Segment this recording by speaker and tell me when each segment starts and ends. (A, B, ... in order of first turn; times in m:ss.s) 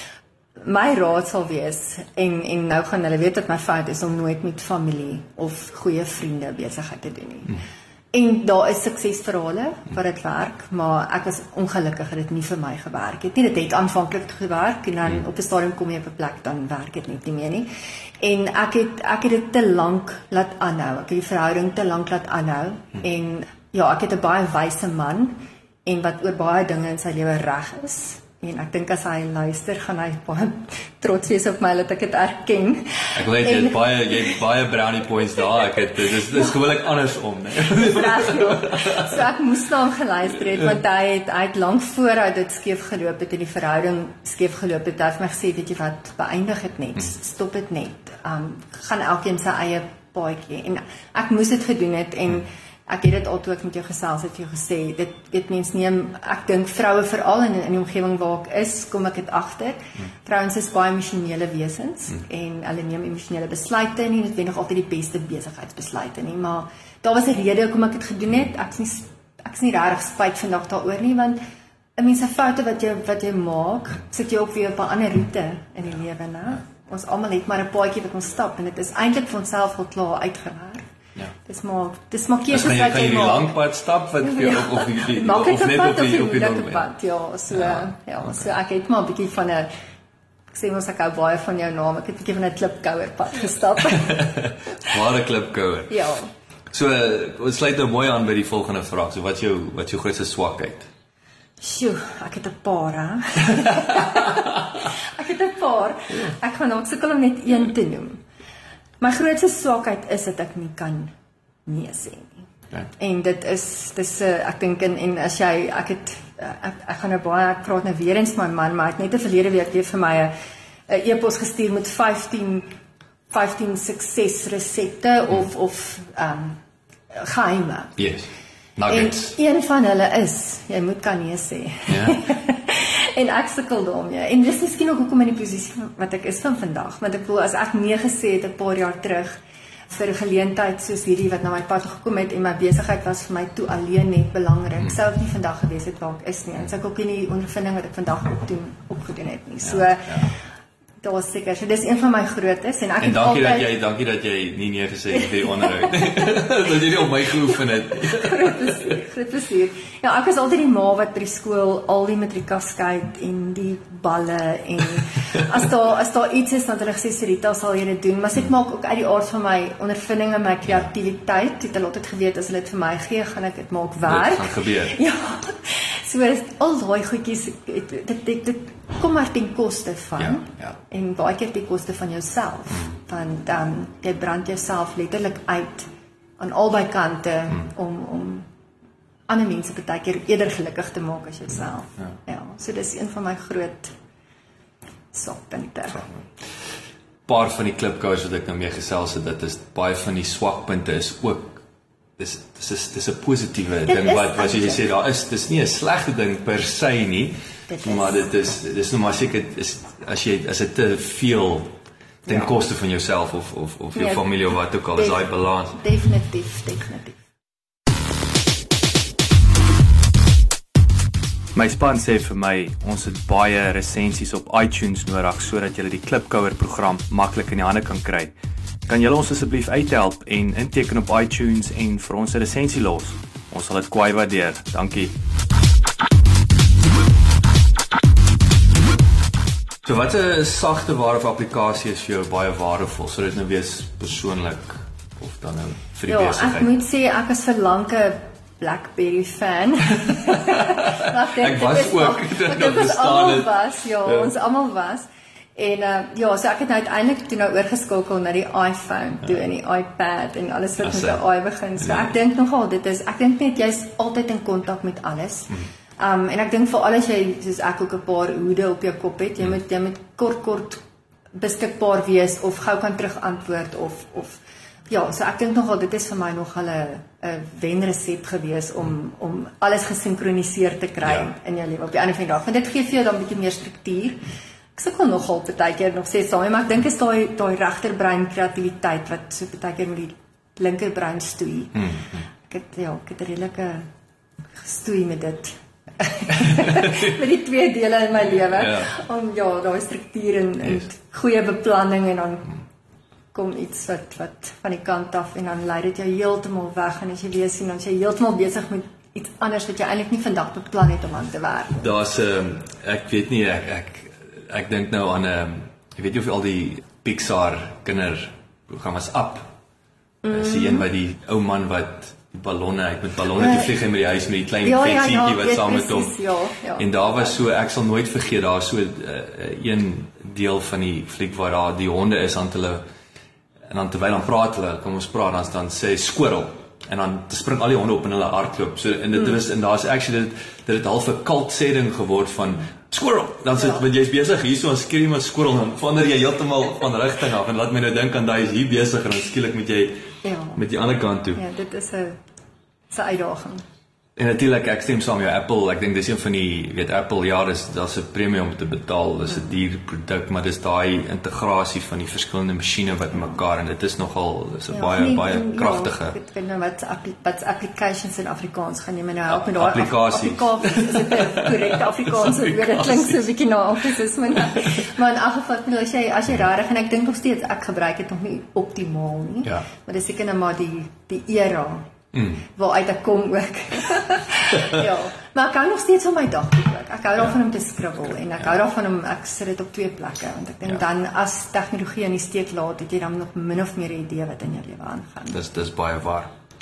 0:00.6-0:07.6 A
0:08.1-0:17.7 A
0:18.2-0:34.4 A
0:33.1-0:39.2 B
0:35.4-0:36.6 A
0:37.6-1:11.4 A
1:12.0-1:20.9 A
1:21.4-1:23.6 A
1:22.5-1:26.9 B
1:24.2-1:29.7 A
1:27.5-1:28.4 B
1:30.5-1:34.3 A
1:34.0-1:36.0 B
1:35.9-1:36.3 A
1:36.7-1:40.9 B
1:41.6-1:48.2 A
1:49.0-1:51.1 A
1:51.6-1:52.4 A
1:53.0-2:00.3 A
2:00.9-2:02.7 A
2:03.3-2:06.6 A
2:07.1-2:08.0 A
2:08.0-2:09.3 B
2:08.9-2:19.4 A
2:11.9-2:12.2 B
2:19.9-2:30.3 A
2:29.6-2:30.3 B
2:31.0-2:33.7 A
2:33.0-2:38.7 B
2:35.1-2:36.4 A
2:37.4-3:08.5 A
2:54.0-2:55.0 B
3:00.2-3:00.8 B
3:09.3-3:13.9 A
3:15.1-3:16.1 A
3:17.3-3:21.6 B
3:22.2-3:35.8 B
3:23.8-3:24.8 A
3:27.7-3:28.3 A
3:32.2-3:32.5 A
3:33.9-3:34.2 A
3:34.9-3:37.2 A
3:41.5-3:48.3 B
3:48.9-3:55.1 B
3:59.8-4:06.7 B
4:06.1-4:53.9 A
4:10.0-4:13.5 B
4:20.8-4:21.2 B
4:21.8-4:22.1 B
4:41.0-4:41.3 B
4:51.8-4:52.2 B
4:54.5-5:02.5 A
4:56.4-4:57.0 B
4:58.5-4:58.9 B
5:03.3-5:11.9 A
5:11.8-5:19.5 B
5:20.2-5:20.8 A
5:20.3-5:26.1 B
5:23.4-5:23.7 A
5:24.6-5:27.4 A
5:26.8-5:32.8 B
5:33.7-5:50.0 B
5:43.5-5:43.8 A
5:50.2-5:50.6 A
5:50.5-5:51.4 B
5:51.3-5:52.2 A
5:52.9-5:53.6 A
5:54.2-6:06.1 B
6:04.7-6:21.9 A
6:09.3-6:13.2 B
6:22.1-6:22.4 B
6:22.4-6:35.4 A
6:35.3-6:36.3 B